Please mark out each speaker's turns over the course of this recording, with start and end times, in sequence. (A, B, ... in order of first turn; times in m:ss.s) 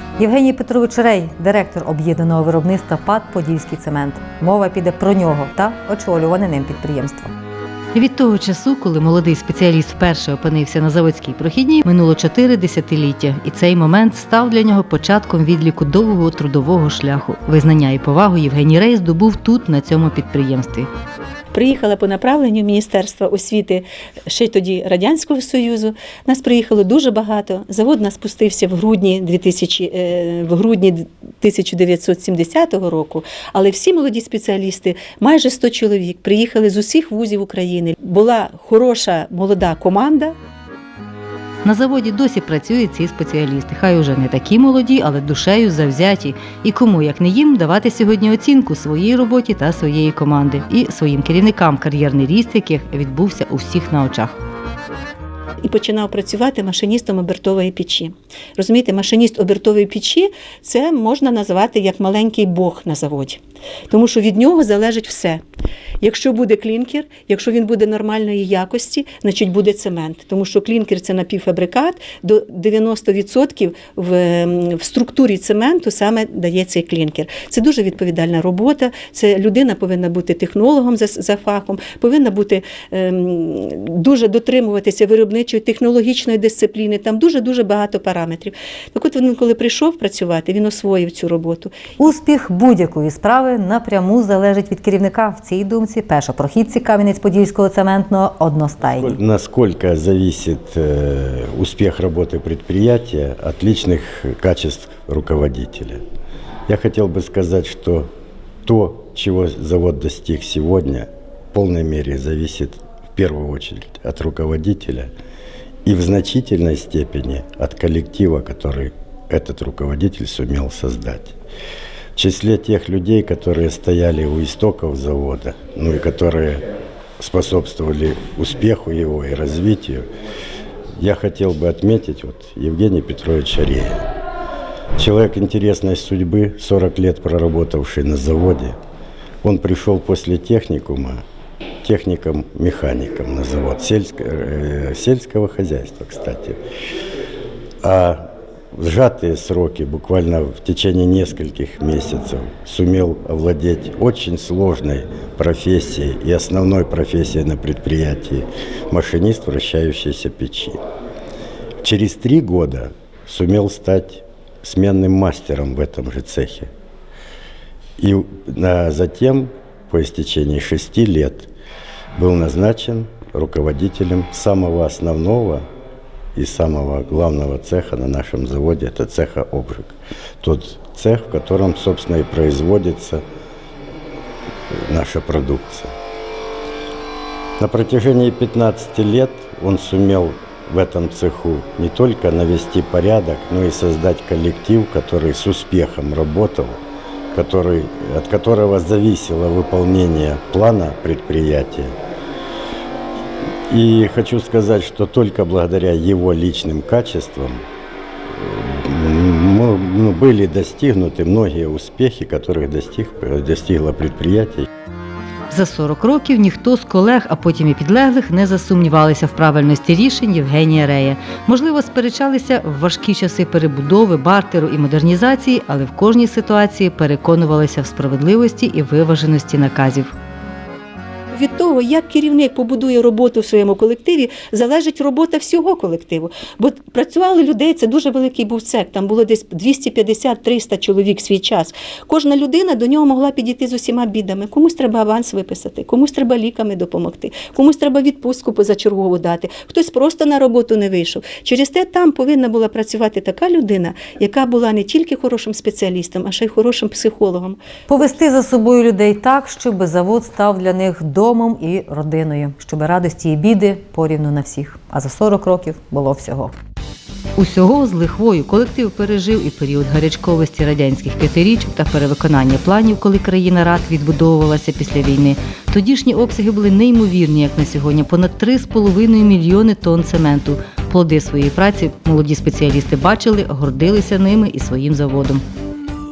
0:00.2-0:07.3 A
0:07.9-0:20.9 B
0:21.5-0:40.3 C
0:41.6-0:54.4 B
0:55.6-1:05.4 C
1:06.0-1:31.7 C
1:32.0-1:39.2 A
1:38.9-1:46.0 D
1:46.7-1:48.1 D
1:48.6-1:55.1 D
1:55.8-2:01.4 D
2:02.2-2:06.6 D
2:07.2-2:10.1 D
2:11.0-2:14.1 D
2:15.0-2:18.8 D
2:19.4-2:21.2 D
2:21.8-2:26.6 D
2:27.8-2:40.8 D
2:41.8-2:46.7 D
2:48.0-2:51.5 D
2:52.2-2:55.7 D
2:56.3-3:03.2 D
3:04.7-3:05.9 D
3:07.6-3:16.8 D
3:17.3-3:22.0 D
3:23.7-3:27.6 D
3:28.3-3:34.7 D
3:35.5-3:50.1 B
3:51.3-4:17.6 C
4:17.9-4:26.5 A
4:27.4-4:45.4 B